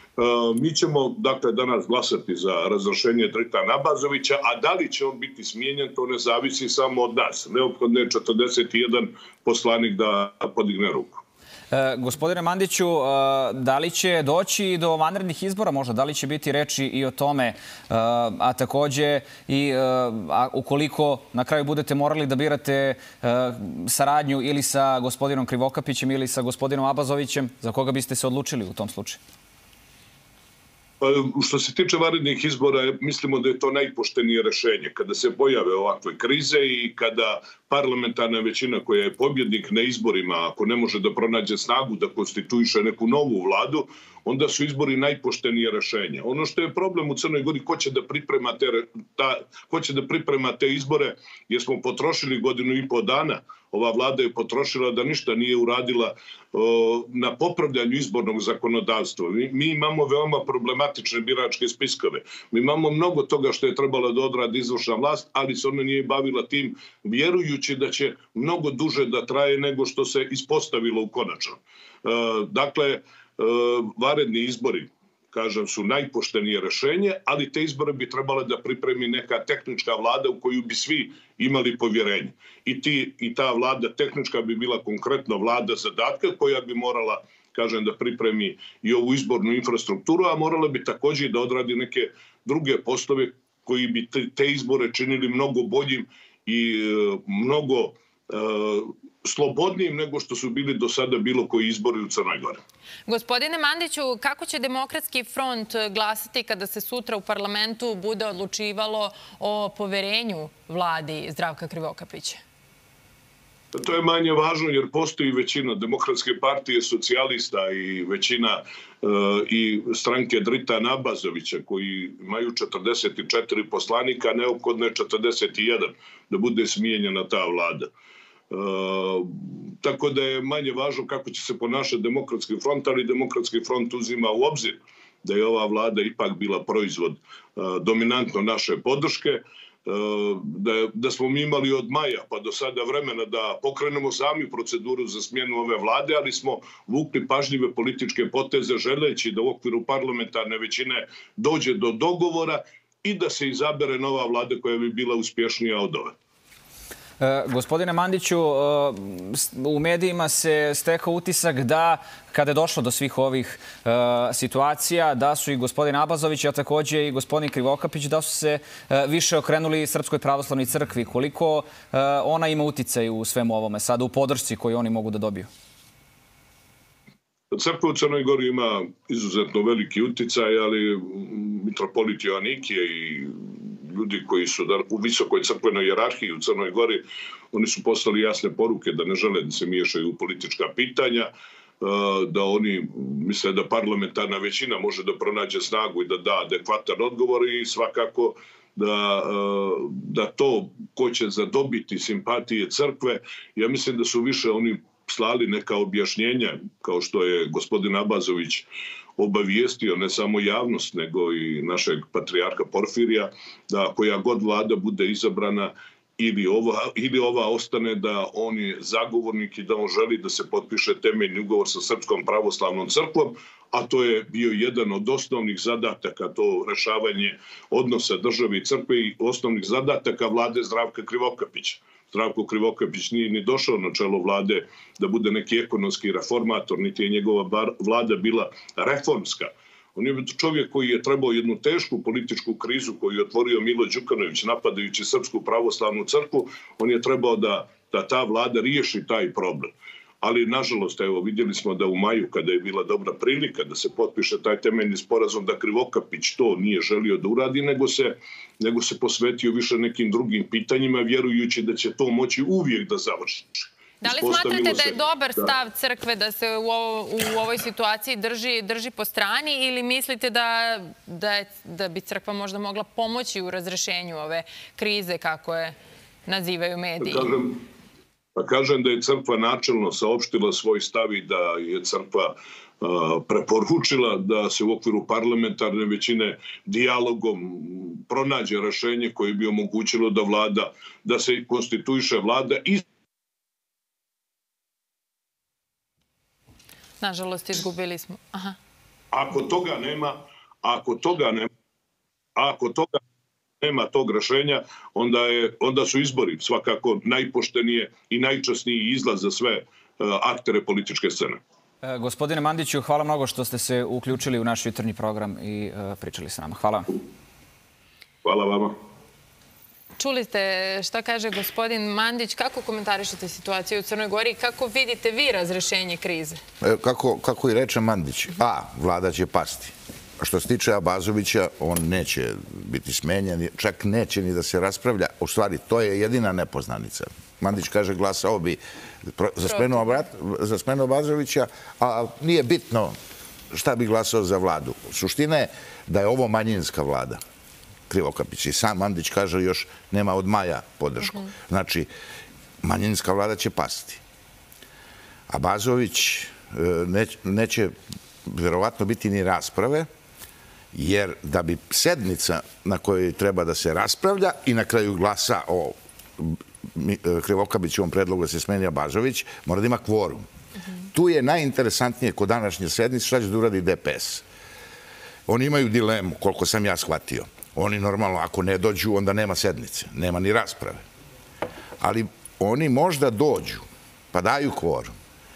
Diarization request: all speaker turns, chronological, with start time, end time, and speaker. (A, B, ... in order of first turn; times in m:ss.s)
0:00.2-0:11.2 A
0:11.7-0:29.2 B
0:31.0-1:42.6 A
1:43.1-1:52.4 C
1:53.7-2:07.9 A
2:08.5-2:36.1 A
2:37.2-2:55.5 B
2:57.5-3:11.3 A
3:11.8-3:28.6 A
3:29.2-4:25.5 A
4:24.0-4:35.7 C
4:36.2-4:37.3 C
4:37.0-4:37.6 A
4:38.4-4:52.8 A
4:57.0-4:58.6 C
4:59.1-5:01.5 A
5:02.4-5:03.0 A
5:03.6-5:11.4 A
5:11.8-5:16.9 B
5:18.2-5:18.8 A
5:20.0-5:26.4 C
5:26.6-5:42.9 D
5:43.5-5:47.2 D
5:47.9-5:51.9 D
5:52.6-5:54.0 D
5:55.3-5:57.7 D
5:58.2-5:59.9 D
6:00.7-6:10.2 D
6:10.9-6:14.2 D
6:15.3-6:20.8 D
6:21.8-6:24.9 D